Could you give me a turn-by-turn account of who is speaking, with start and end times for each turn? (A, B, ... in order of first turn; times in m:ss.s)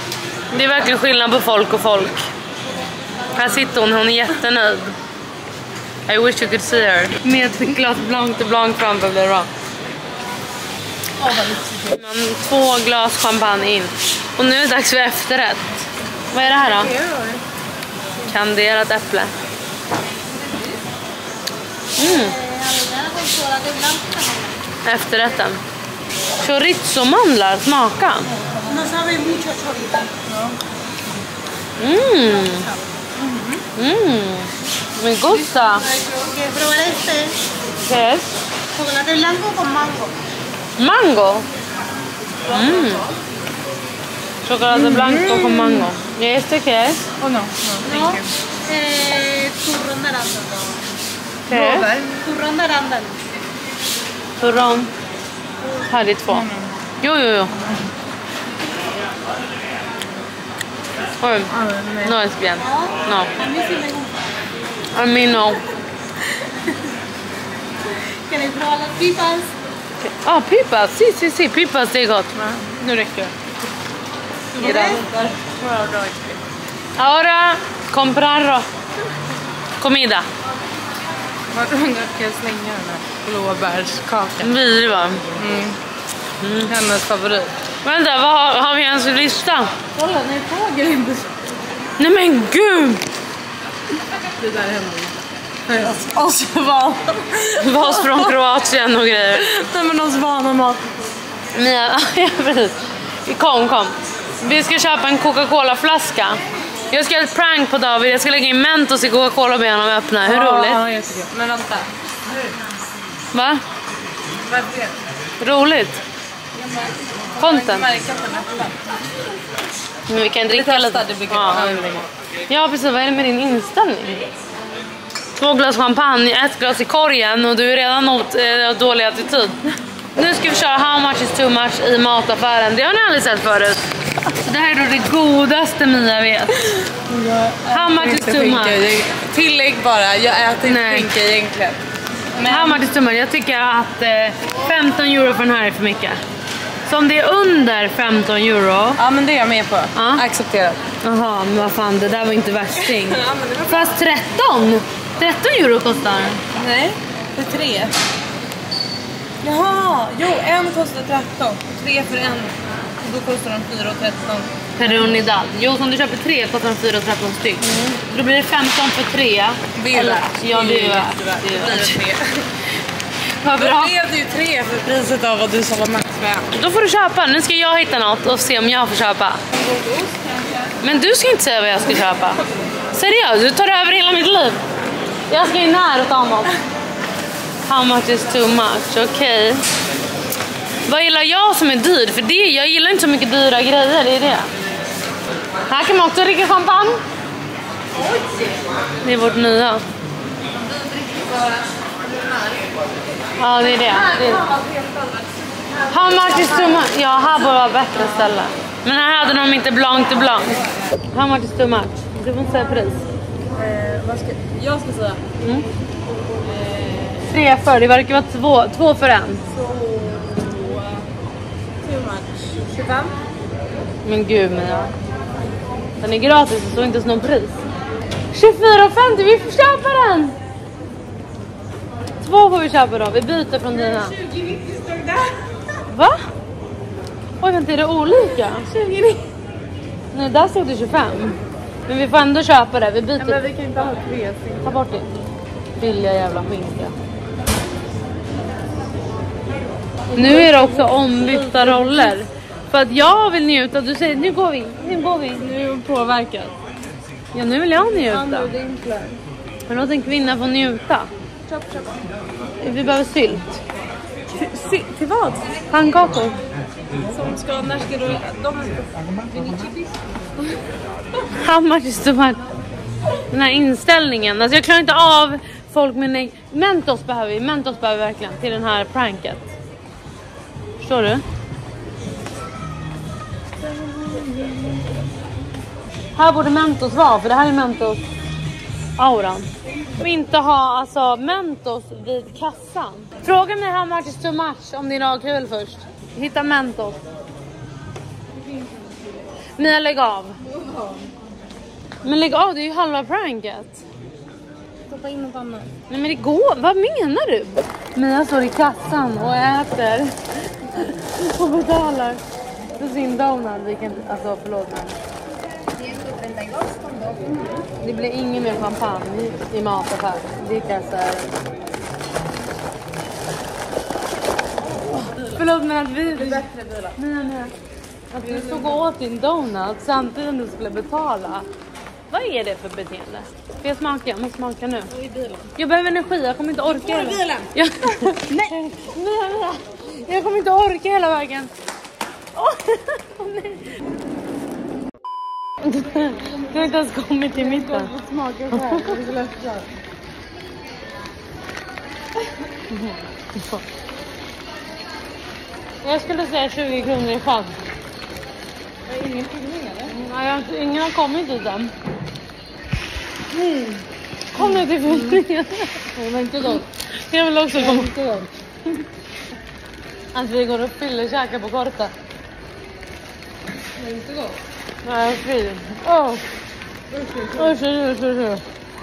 0:00.5-0:02.3 A
0:03.3-0:05.0 A
0:06.1-0:09.5 A
0:11.2-0:11.9 B
0:11.4-0:15.7 A
0:16.3-0:17.0 A
0:17.0-0:17.4 C
0:18.2-0:19.3 A
0:20.4-0:20.7 B
0:22.0-0:22.4 A
0:22.2-0:24.6 C
0:24.8-0:25.6 A
0:26.4-0:28.3 A
0:28.4-0:28.9 B
0:28.7-0:30.2 C
0:31.8-0:32.7 A
0:33.2-0:33.6 B
0:33.8-0:35.9 A
0:35.9-0:37.4 C
0:37.8-0:38.4 A
0:38.7-0:40.1 C
0:40.8-0:41.4 A
0:42.4-0:43.1 A
0:42.6-0:43.0 B
0:44.4-0:47.1 A
0:44.7-0:45.9 B
0:47.2-0:48.3 B
0:47.9-0:50.8 C
0:51.5-0:52.3 B
0:51.5-0:51.9 A
0:52.1-0:53.2 C
0:54.4-0:54.9 A
0:55.8-0:56.5 A
0:56.3-0:56.7 B
0:57.0-0:57.5 A
1:01.2-1:03.3 A
1:01.5-1:02.2 B
1:02.7-1:04.2 C
1:04.9-1:05.6 A
1:08.3-1:09.5 C
1:10.0-1:13.3 A
1:12.4-1:12.8 B
1:14.5-1:16.4 B
1:14.6-1:15.0 A
1:17.0-1:18.6 A
1:19.8-1:20.3 A
1:21.5-1:24.5 B
1:24.4-1:25.2 A
1:25.3-1:25.8 B
1:26.4-1:26.7 A
1:26.6-1:27.5 B
1:27.8-1:29.7 A
1:29.9-1:31.3 B
1:32.0-1:33.0 A
1:34.4-1:35.1 B
1:35.7-1:38.4 B
1:37.6-1:39.5 A
1:39.3-1:40.9 B
1:41.5-1:46.4 A
1:46.9-1:50.8 A
1:50.2-1:51.9 B
1:53.3-1:53.6 A
1:54.4-1:55.0 B
1:55.4-1:56.0 A
1:56.5-1:58.8 B
1:57.4-1:57.9 A
2:00.1-2:01.9 A
2:00.5-2:02.1 B
2:02.5-2:04.3 A
2:05.4-2:09.6 A
2:10.2-2:16.7 A
2:16.9-2:21.8 B
2:17.7-2:18.8 A
2:20.6-2:21.2 A
2:22.3-2:22.9 B
2:22.4-2:26.2 A
2:26.8-2:29.0 A
2:29.0-2:30.8 B
2:29.9-2:30.2 A
2:31.0-2:36.4 A
2:32.7-2:34.0 B
2:36.5-2:37.9 B
2:39.4-2:44.5 B
2:44.8-2:52.0 A
2:49.7-2:52.5 B
2:53.4-2:53.9 A
2:53.5-2:56.6 B
2:56.5-2:59.4 A
2:59.5-3:00.2 B
3:00.8-3:04.6 A
3:05.3-3:06.5 A
3:07.7-3:09.6 A
3:10.8-3:14.5 A
3:15.7-3:17.0 A
3:18.0-3:18.4 B
3:19.0-3:19.8 A
3:20.8-3:21.6 B
3:23.4-3:24.5 A
3:23.9-3:25.2 B
3:25.9-3:30.6 A
3:26.0-3:26.8 B
3:31.1-3:33.0 A
3:33.5-3:35.2 B
3:35.4-3:35.6 A
3:36.4-3:37.2 B
3:37.2-3:39.4 A
3:39.5-3:41.0 B
3:41.8-3:43.2 B
3:44.0-3:44.9 A
3:46.0-3:47.6 A
3:48.3-3:50.4 A
3:52.2-3:54.2 A
3:54.1-3:55.3 B
3:55.9-3:56.2 A
3:57.4-3:59.2 A
4:00.1-4:03.4 A
4:03.2-4:04.7 B
4:04.6-4:05.1 A
4:05.8-4:06.9 A
4:10.1-4:12.2 B
4:10.1-4:15.5 A
4:15.4-4:16.5 B
4:17.3-4:18.5 A
4:17.8-4:19.2 B
4:19.7-4:21.1 A
4:21.5-4:22.0 B
4:22.6-4:23.6 A
4:24.3-4:25.5 B
4:25.7-4:26.4 A
4:27.0-4:30.6 B
4:31.3-4:32.4 A
4:33.3-4:39.5 A
4:40.8-4:41.2 A
4:43.6-4:44.7 B
4:46.1-4:48.0 A
4:49.0-4:57.0 A
4:59.6-5:00.4 A
5:02.0-5:03.8 A
5:04.9-5:05.7 B
5:05.9-5:12.2 A
5:12.8-5:15.0 A
5:15.8-5:17.6 B
5:17.8-5:21.3 A
5:24.9-5:25.4 B
5:25.2-5:27.5 A
5:26.1-5:27.0 B
5:28.1-5:31.4 A
5:28.2-5:28.8 B
5:32.1-5:34.9 A
5:34.9-5:35.5 B
5:35.5-5:41.5 A
5:37.0-5:37.5 B
5:38.0-5:38.5 B
5:42.4-5:43.7 A
5:45.6-5:47.9 A
5:47.3-5:49.7 B
5:48.5-5:49.0 A
5:52.7-5:53.6 A
5:55.8-5:57.6 A
5:58.9-6:00.0 B
5:59.9-6:01.7 A
6:03.3-6:03.8 B
6:04.3-6:07.9 A
6:04.4-6:05.2 B
6:06.0-6:06.6 B
6:07.5-6:08.3 B
6:10.1-6:11.9 A
6:13.8-6:14.4 B
6:14.8-6:16.2 A
6:16.9-6:17.6 B
6:17.3-6:18.4 A